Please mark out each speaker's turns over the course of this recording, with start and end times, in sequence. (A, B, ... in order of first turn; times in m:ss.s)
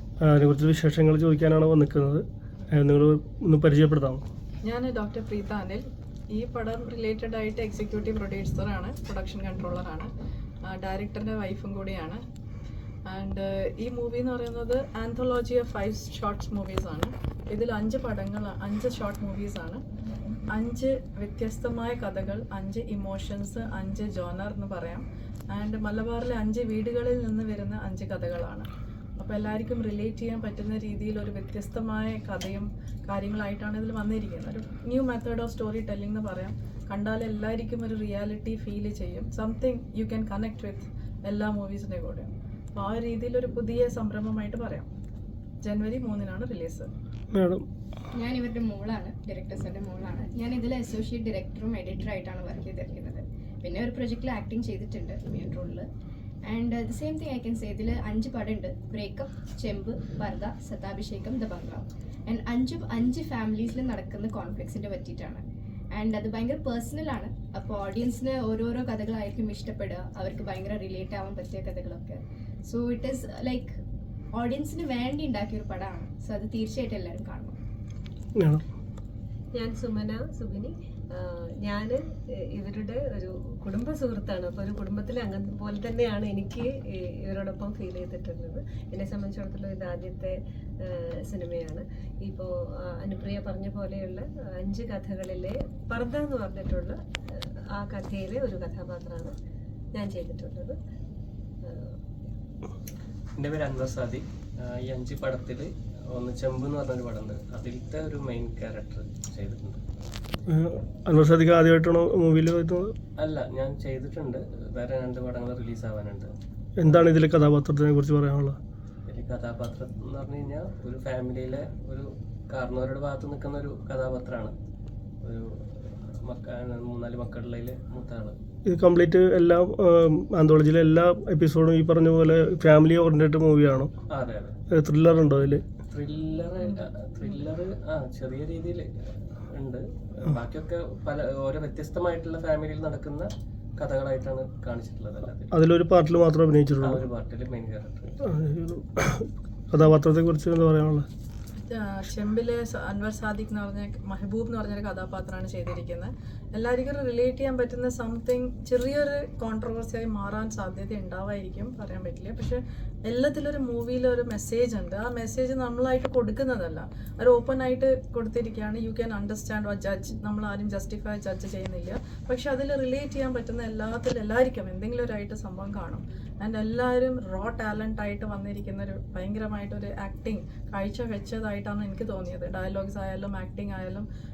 0:00.2-0:04.2 A
0:04.6-0:10.1 B
0:10.7-0:12.2 B
0:13.1-0:19.8 B
0:20.5-0:28.7 B
0:29.2-0:44.9 B
0:45.6-0:46.9 B
0:47.3-0:47.6 A
0:48.2-0:55.9 C
0:56.5-1:13.8 C
1:14.3-1:17.6 C
1:18.4-1:18.6 A
1:19.5-1:22.0 D
1:22.5-1:39.4 D
1:39.9-1:40.8 D
1:41.6-1:42.0 D
1:43.4-1:49.8 E
1:50.5-1:52.9 A
1:53.2-1:56.3 E
1:56.8-1:58.6 A
1:59.1-2:04.5 E
2:05.2-2:08.4 E
2:08.7-2:13.9 A
2:14.1-2:14.6 E
2:14.7-2:15.6 A
2:15.8-2:25.6 E
2:16.7-2:17.4 B
2:25.5-2:27.0 A
2:26.8-2:28.2 E
2:28.2-2:31.1 A
2:31.7-3:04.1 B